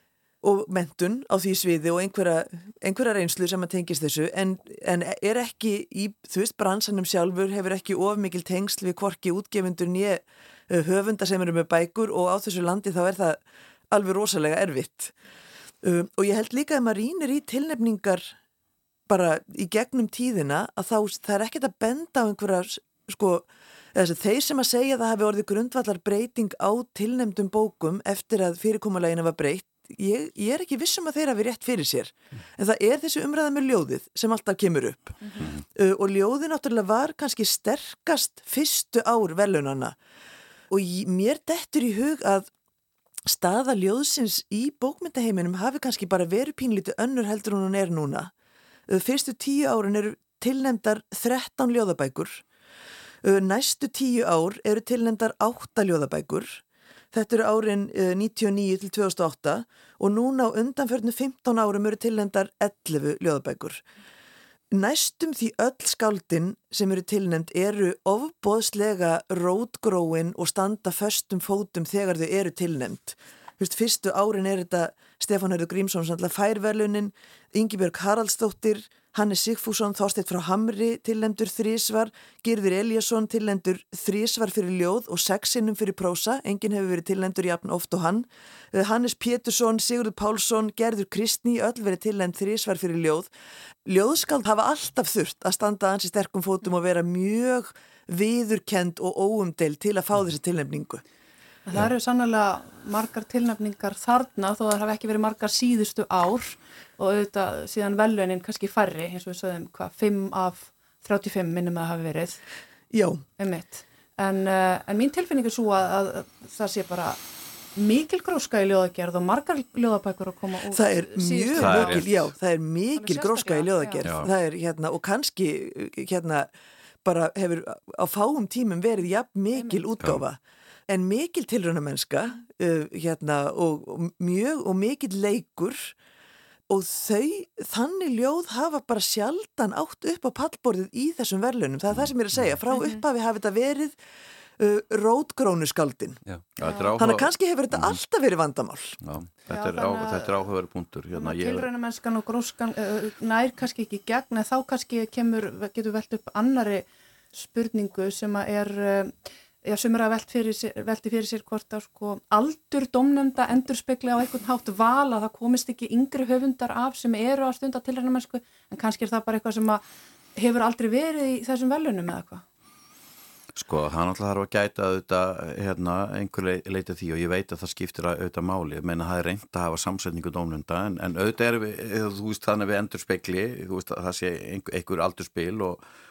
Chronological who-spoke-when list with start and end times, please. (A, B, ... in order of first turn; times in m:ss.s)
0:00.4-0:15.1 A
0:15.8-0:18.3 A
0:19.1-0:40.0 A
0:40.7-0:42.5 A
0:43.2-0:48.3 A
0:48.9-0:52.4 A
0:53.2-1:03.8 A
1:04.7-1:33.3 A
1:33.8-1:41.0 A
1:41.6-1:52.4 B
1:52.9-1:53.2 A
1:53.4-1:57.2 B
1:57.8-2:02.1 B
2:00.7-2:06.5 A
2:01.6-2:02.3 C
2:03.0-2:04.1 B
2:07.0-2:15.9 A
2:09.5-2:09.8 B
2:16.7-2:24.0 A
2:21.9-2:22.5 C
2:24.6-2:26.2 A
2:26.6-2:28.0 C
2:26.6-2:26.9 B
2:27.0-2:29.0 A
2:29.0-2:31.7 C
2:29.5-2:30.4 B
2:31.1-2:49.8 B
2:50.4-2:52.4 B
2:53.5-3:05.8 C